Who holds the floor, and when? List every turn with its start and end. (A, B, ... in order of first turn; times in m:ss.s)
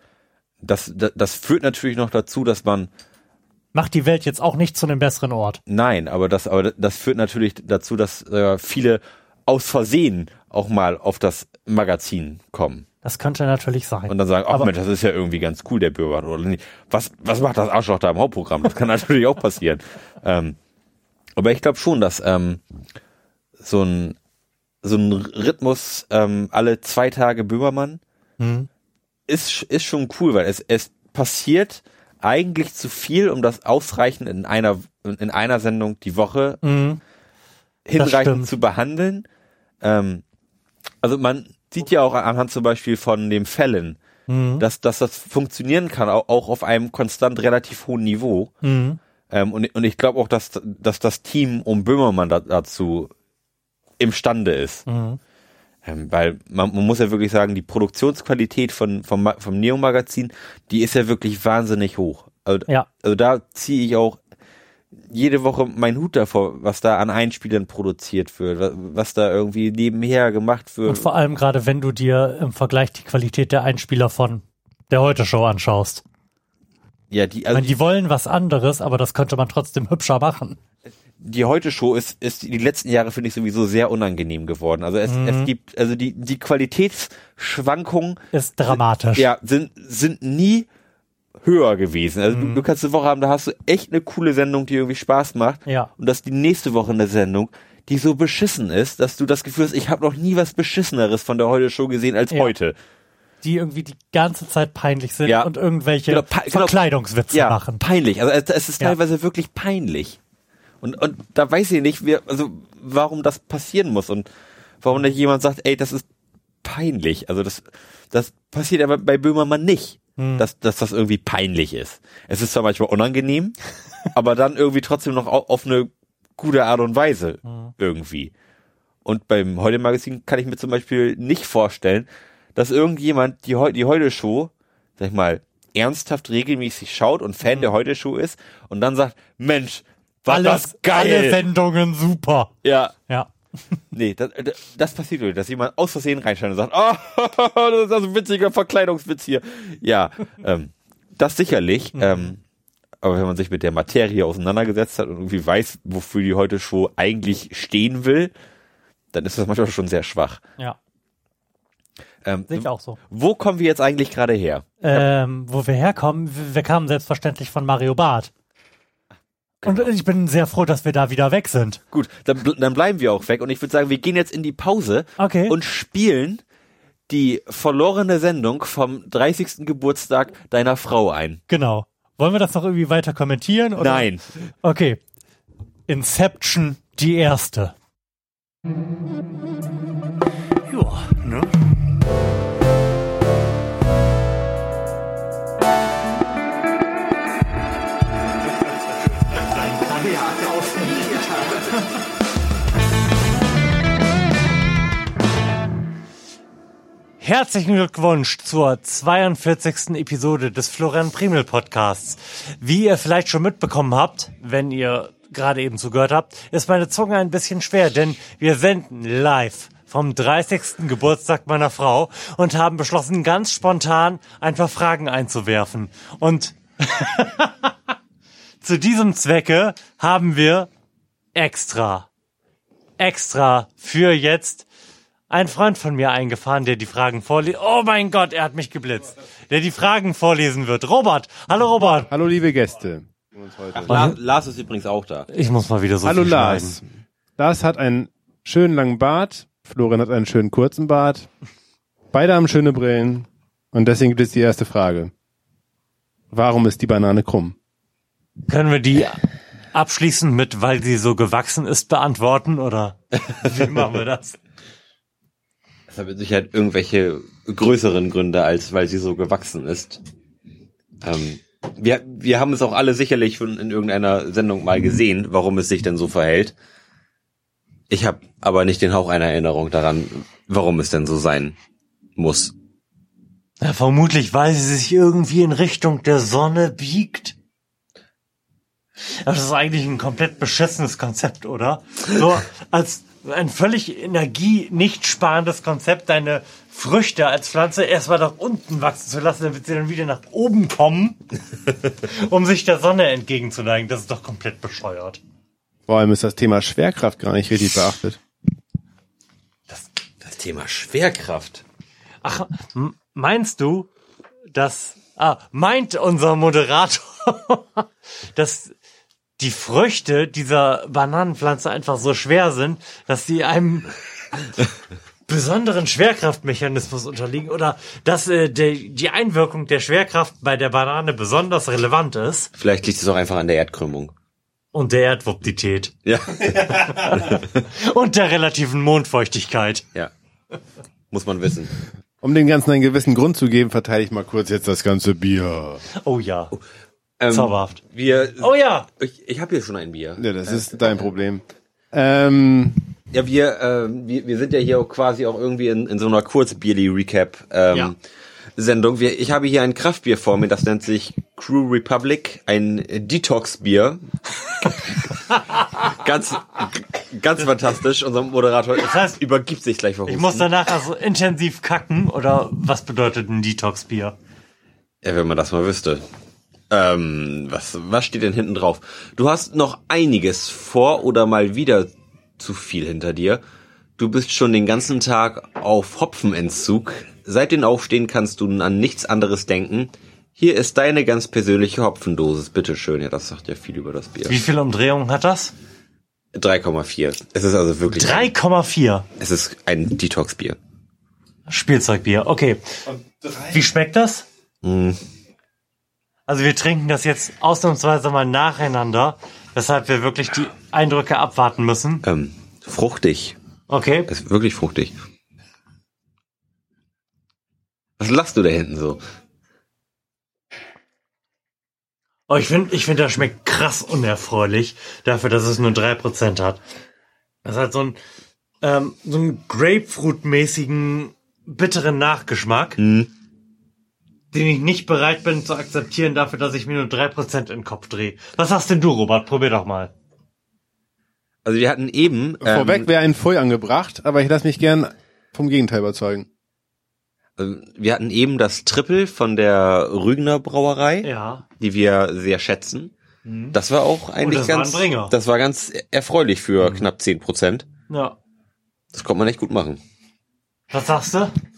0:00.6-0:02.9 A
0:03.7-0:05.6 B
0:05.7-0:12.8 A
0:13.0-0:14.7 B
0:14.1-0:20.6 A
0:21.4-0:22.6 A
0:23.6-0:24.2 A
0:24.8-0:28.0 A
0:28.4-0:28.7 B
0:29.3-0:36.6 A
0:36.6-0:37.0 B
0:37.9-0:39.3 A
0:38.0-0:38.5 B
0:39.8-0:40.2 A
0:41.0-0:44.0 A
0:44.3-0:44.6 B
0:44.6-0:48.5 A
0:48.6-0:49.0 B
0:49.3-0:53.1 A
0:54.0-0:54.8 A
0:54.9-0:55.2 B
0:55.8-1:04.2 A
1:05.1-1:11.1 A
1:10.9-1:16.0 B
1:17.1-1:17.7 A
1:17.5-1:20.6 B
1:21.2-1:30.7 A
1:25.0-1:25.5 B
1:28.3-1:29.3 B
1:31.4-1:42.8 A
1:32.3-1:32.6 B
1:43.4-1:47.8 B
1:45.3-1:45.5 A
1:46.1-1:46.8 A
1:47.3-1:50.2 A
1:50.8-1:54.3 A
1:54.8-1:56.0 A
1:56.6-2:03.6 A
2:00.2-2:00.4 B
2:04.1-2:08.3 A
2:07.4-2:07.7 B
2:09.0-2:21.4 A
2:20.3-2:22.5 B
2:22.6-2:23.0 A
2:23.9-2:32.4 A
2:32.0-2:32.3 B
2:33.0-2:38.3 A
2:39.1-2:40.4 A
2:42.2-2:45.0 A
2:42.5-2:43.0 B
2:44.8-2:48.3 B
2:49.6-2:49.9 A
2:49.6-2:51.8 B
2:51.9-2:56.4 A
2:55.2-2:55.6 B
2:57.1-3:01.4 A
3:01.5-3:04.1 B
3:03.8-3:04.3 A
3:04.6-3:05.0 B
3:05.9-3:07.7 B
3:10.7-3:11.6 B
3:19.4-3:21.8 B
3:27.2-3:47.7 B
3:48.6-3:50.7 B
3:51.4-3:52.1 B
3:53.0-3:54.7 B
3:55.3-4:02.1 B
4:02.1-4:04.1 C
4:03.7-4:05.3 A
4:03.9-4:04.2 B
4:05.3-4:06.8 B
4:06.0-4:06.8 C
4:07.4-4:11.3 C
4:12.1-4:15.1 C
4:16.3-4:17.6 C
4:18.5-4:19.2 B
4:19.7-4:24.4 B
4:25.9-4:30.0 A
4:31.0-4:36.6 A
4:37.9-4:41.6 A
4:42.2-4:42.5 A
4:43.6-4:47.4 B
4:49.0-5:01.2 B
5:02.0-5:05.2 B
5:05.9-5:08.2 C
5:09.7-5:11.6 A
5:12.2-5:13.9 B
5:14.5-5:18.7 B
5:19.4-5:23.9 B
5:25.3-5:32.5 B
5:32.6-5:34.1 A
5:34.7-5:35.9 B
5:36.0-5:37.6 A
5:36.7-5:39.8 B
5:41.1-5:41.8 A
5:42.2-5:45.8 C
5:46.0-5:46.5 B
5:47.2-5:50.9 A
5:47.3-5:47.8 B
5:48.4-5:48.9 B
5:50.2-5:52.9 C
5:53.1-5:58.0 A
5:58.6-6:04.0 A
6:04.6-6:05.0 A
6:05.8-6:10.5 A
6:08.8-6:09.2 B
6:10.1-6:14.2 B
6:15.0-6:16.0 A
6:16.7-6:23.4 A
6:24.0-6:34.4 A
6:34.3-6:35.5 B
6:36.3-6:38.3 A
6:37.9-6:39.0 B
6:39.2-6:40.6 A
6:41.5-6:42.6 B
6:43.3-6:44.2 B
6:44.6-6:45.0 A
6:46.3-6:52.0 B
6:52.0-6:53.4 A
6:53.7-6:54.1 B
6:54.1-6:55.0 A
6:58.0-6:59.0 A
7:02.3-7:06.6 B
7:07.4-7:08.0 B
7:08.6-7:12.8 B
7:12.8-7:13.1 A
7:14.3-7:19.9 B
7:21.4-7:22.9 A
7:22.4-7:26.3 C
7:27.4-7:31.1 A
7:31.0-7:31.4 B
7:31.6-7:32.9 A
7:33.3-7:33.6 B
7:33.5-7:37.7 A
7:34.2-7:35.1 B
7:37.9-7:38.2 B
7:38.9-7:39.8 A
7:40.7-7:41.3 B